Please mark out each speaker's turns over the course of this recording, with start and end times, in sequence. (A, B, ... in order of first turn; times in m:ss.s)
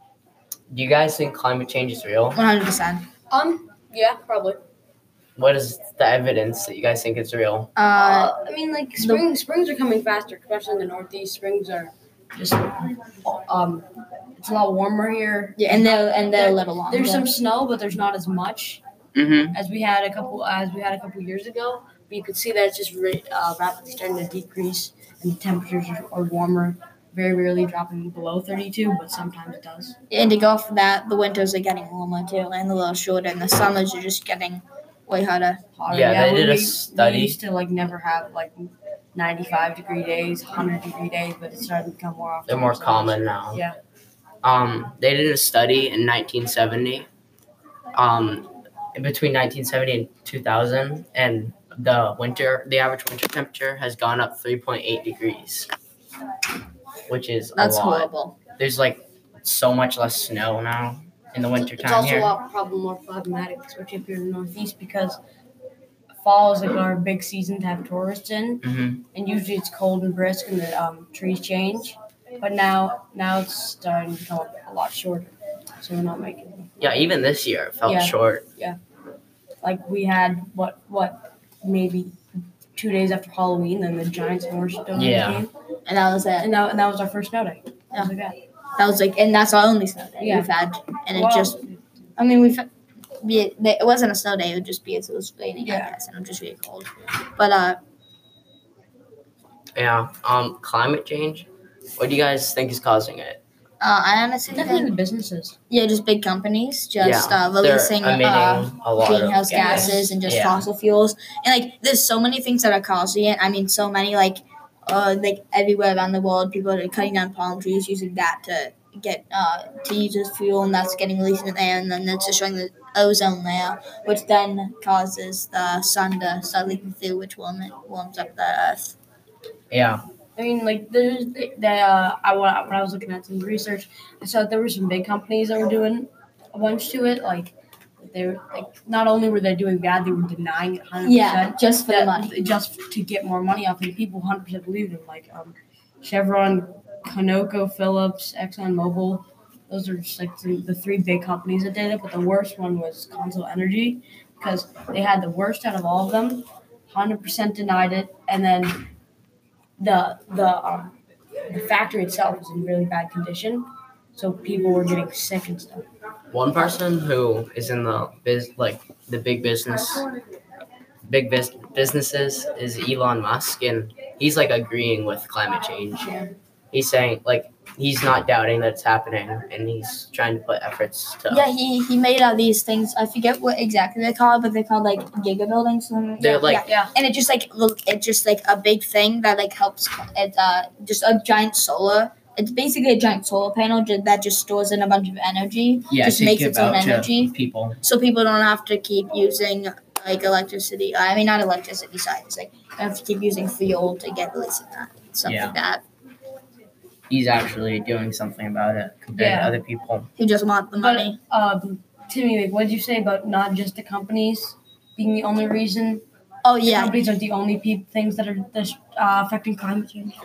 0:00.7-0:02.4 A
0:02.3-0:03.0 B
0:03.3-0:04.6 C
0:05.4-0:07.7 A
0:07.8-0:08.3 B
0:07.9-0:13.8 C
0:09.0-0:09.2 B
0:14.4-0:18.8 C
0:15.6-0:17.3 B
0:19.1-0:19.6 A
0:19.5-0:30.0 C
0:30.1-0:35.6 B
0:35.8-0:43.7 C
0:35.9-0:37.4 A
0:42.5-0:43.6 A
0:44.4-0:47.1 A
0:47.9-0:55.7 A
0:57.1-1:02.3 A
0:57.6-0:58.4 B
1:01.6-1:05.2 C
1:06.2-1:17.0 C
1:08.6-1:09.0 A
1:16.8-1:18.4 A
1:17.8-1:18.8 C
1:19.6-1:22.2 C
1:22.8-1:25.5 C
1:25.0-1:25.4 A
1:25.9-1:26.6 B
1:26.4-1:28.4 C
1:28.8-1:31.6 B
1:30.2-1:30.5 C
1:31.1-1:31.8 C
1:32.2-1:32.7 B
1:33.2-1:37.8 B
1:35.6-1:35.9 C
1:39.7-1:43.4 A
1:43.8-1:44.9 B
1:44.5-1:45.6 C
1:45.7-2:09.0 B
1:47.0-1:50.6 A
1:49.5-1:50.1 C
2:09.7-2:10.0 A
2:10.4-2:38.9 C
2:21.0-2:22.4 B
2:39.8-2:40.9 C
2:41.5-2:45.8 C
2:46.3-2:50.0 A
2:51.0-2:56.1 A
2:56.7-3:01.4 A
3:01.3-3:25.8 B
3:06.2-3:06.6 A
3:06.6-3:06.9 C
3:15.9-3:17.8 A
3:25.2-3:25.5 A
3:27.1-3:30.1 A
3:29.2-3:29.5 C
3:30.2-3:31.2 B
3:30.8-3:36.0 C
3:36.4-3:37.0 B
3:36.6-3:40.1 C